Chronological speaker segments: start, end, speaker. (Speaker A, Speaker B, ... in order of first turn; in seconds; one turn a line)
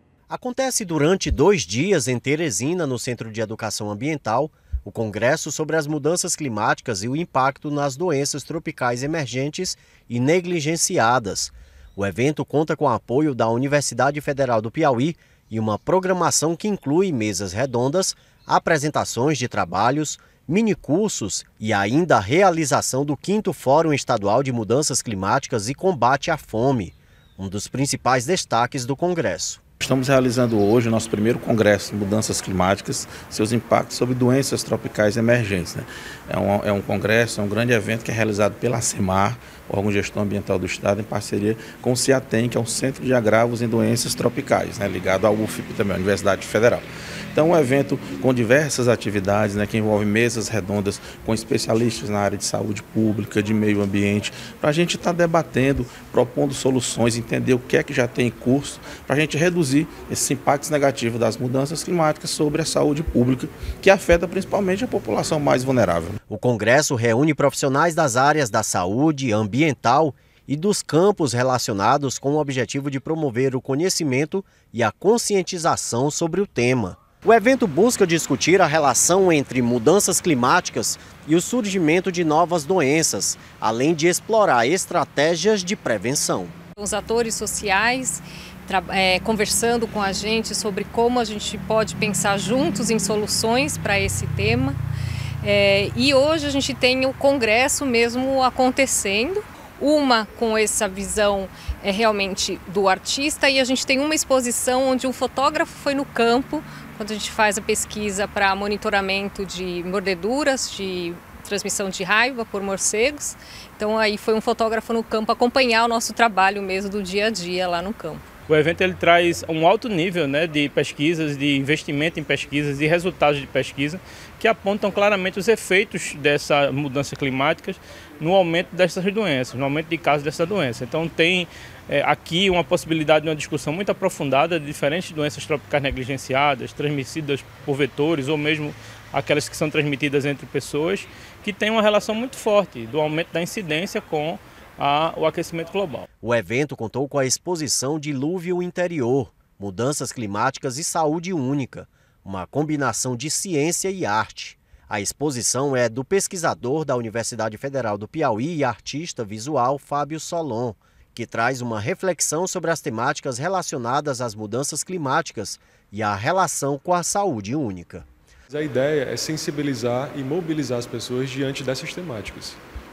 Speaker A: 0.3-29.6
Speaker B: 29.8-66.2
Speaker A: 66.3-86.5
Speaker C: 86.8-94.8
Speaker C: 95.4-118.2
Speaker D: 118.5-146.1
Speaker A: 146.2-168.1
Speaker E: 168.5-172.6